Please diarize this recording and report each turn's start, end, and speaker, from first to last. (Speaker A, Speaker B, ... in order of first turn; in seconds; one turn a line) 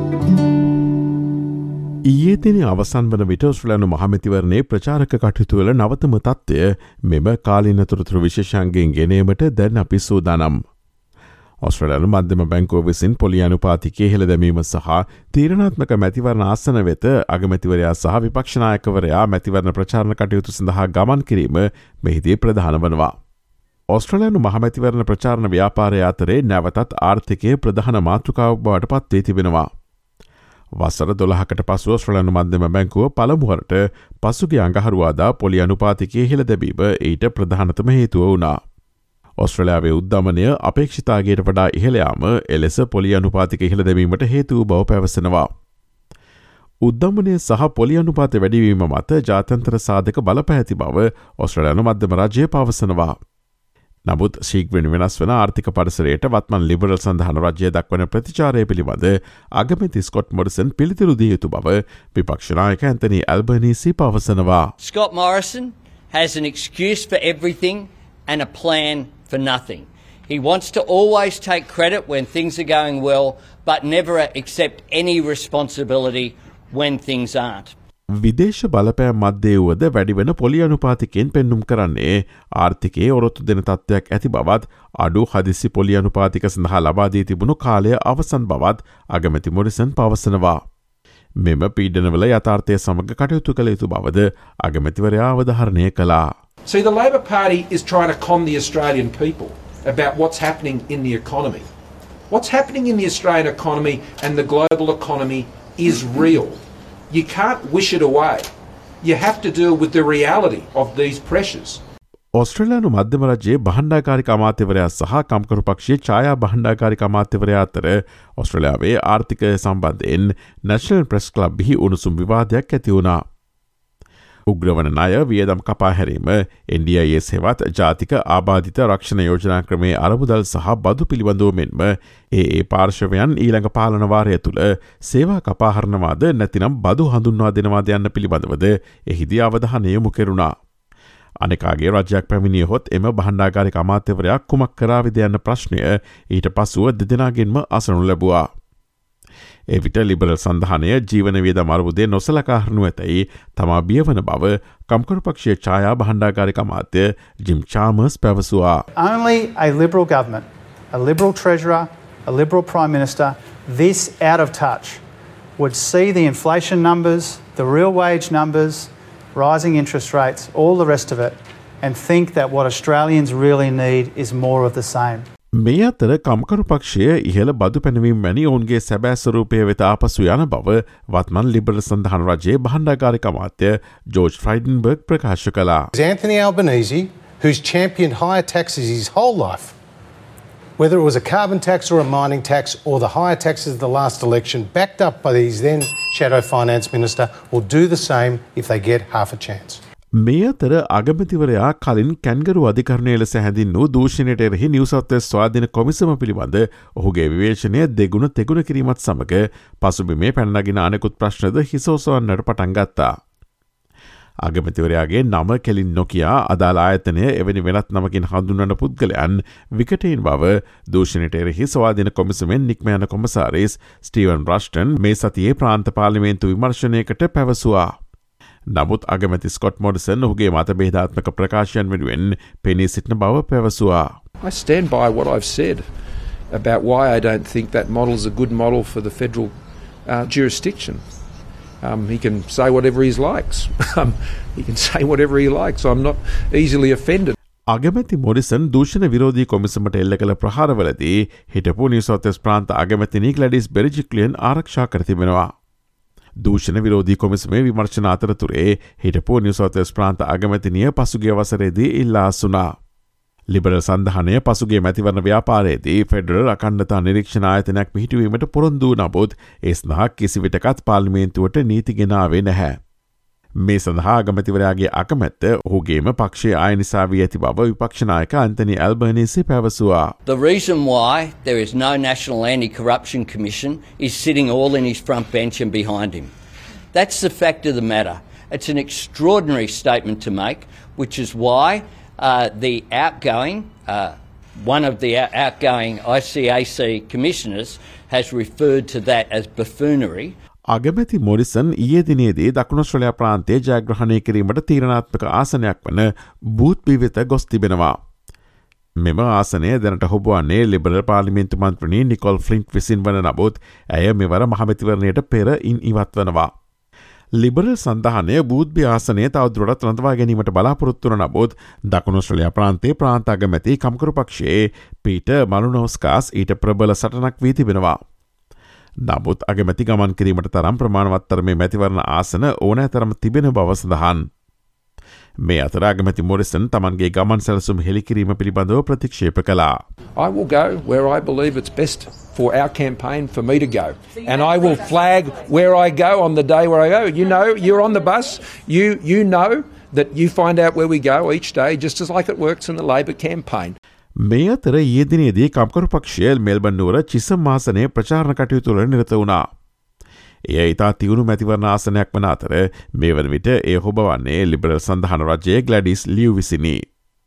Speaker A: 2.1-10.6
Speaker A: 11.6-23.1
Speaker A: 23.9-29.7
Speaker A: 30.8-38.5
Speaker A: 39.4-45.5
Speaker A: 46.9-53.1
Speaker A: 54.1-64.7
Speaker B: 64.8-77.7
Speaker A: 78.2-90.6
Speaker A: 91.4-96.2
Speaker C: 96.7-101.7
Speaker C: 102.3-108.5
Speaker C: 109.0-111.8
Speaker A: 112.4-123.2
Speaker A: 124.5-140.5
Speaker A: 141.4-148.4
Speaker A: 149.7-158.8
Speaker D: 158.9-165.0
Speaker D: 165.6-175.2
Speaker A: 175.6-185.9
Speaker E: 185.9-189.7
Speaker E: 190.8-199.8
Speaker A: 200.2-213.1
Speaker A: 214.4-227.8
Speaker A: 228.7-234.1
Speaker C: 234.4-235.9
Speaker C: 236.5-239.5
Speaker C: 240.1-241.0
Speaker C: 241.8-247.3
Speaker A: 247.7-255.5
Speaker A: 256.4-262.6
Speaker A: 263.5-272.8
Speaker A: 273.6-280.1
Speaker B: 280.2-286.3
Speaker B: 286.9-300.3
Speaker A: 300.7-307.9
Speaker A: 309.0-316.5
Speaker A: 317.4-328.0
Speaker A: 329.1-334.2
Speaker A: 335.4-339.8
Speaker C: 340.1-353.8
Speaker A: 354.2-359.4
Speaker A: 360.5-366.8